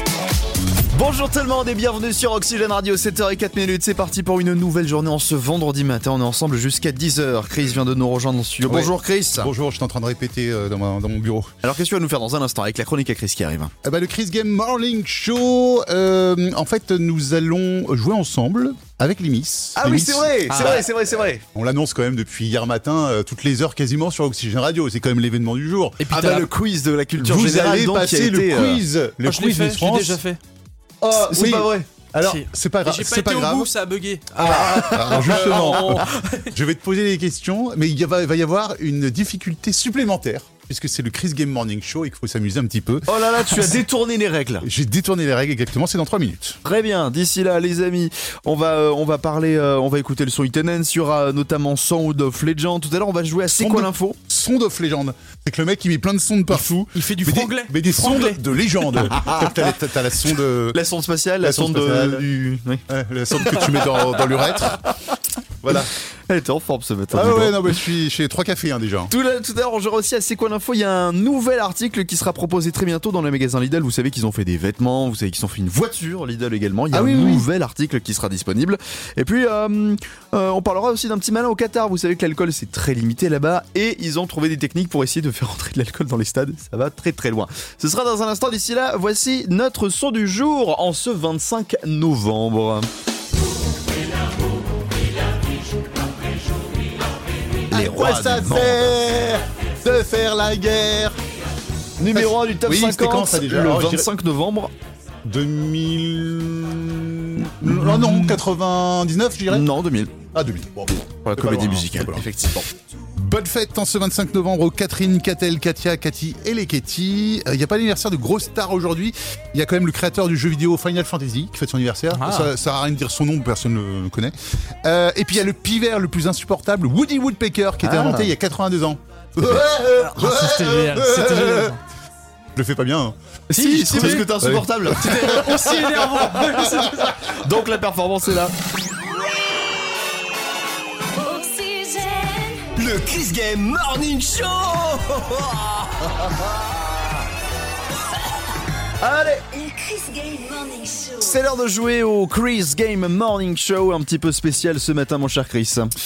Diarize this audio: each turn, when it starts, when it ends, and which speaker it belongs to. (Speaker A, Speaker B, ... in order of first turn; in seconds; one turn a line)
Speaker A: 0.9-9.5
Speaker B: 8.7-11.5
Speaker A: 11.6-13.7
Speaker B: 13.8-26.1
Speaker A: 19.8-21.4
Speaker C: 20.5-20.8
Speaker C: 26.0-26.5
Speaker A: 26.1-28.8
Speaker B: 27.2-30.2
Speaker C: 29.2-30.4
Speaker B: 31.0-33.7
Speaker A: 31.1-31.9
Speaker C: 32.2-36.5
Speaker B: 34.3-43.7
Speaker A: 34.4-36.0
Speaker A: 43.1-44.7
Speaker B: 44.6-46.6
Speaker A: 46.6-54.2
Speaker B: 53.5-60.8
Speaker C: 56.9-58.4
Speaker A: 60.7-65.0
Speaker B: 61.4-62.3
Speaker B: 62.9-64.8
Speaker B: 65.6-65.9
Speaker A: 66.3-67.8
Speaker B: 67.1-69.1
Speaker A: 69.1-92.9
Speaker B: 76.9-77.5
Speaker A: 97.7-98.9
Speaker B: 97.7-101.2
Speaker A: 102.0-104.7
Speaker B: 102.1-104.1
Speaker B: 105.2-109.7
Speaker A: 107.7-108.4
Speaker A: 109.5-110.2
Speaker B: 110.3-112.3
Speaker A: 111.0-112.7
Speaker B: 113.2-131.8
Speaker C: 122.1-122.5
Speaker A: 127.8-128.3
Speaker C: 130.0-131.8
Speaker B: 132.6-133.2
Speaker A: 133.5-135.3
Speaker C: 133.5-134.3
Speaker B: 133.9-136.4
Speaker C: 134.9-137.3
Speaker A: 137.3-138.5
Speaker D: 141.2-142.7
Speaker E: 142.8-146.5
Speaker A: 149.0-149.4
Speaker D: 149.5-151.3
Speaker A: 151.2-155.9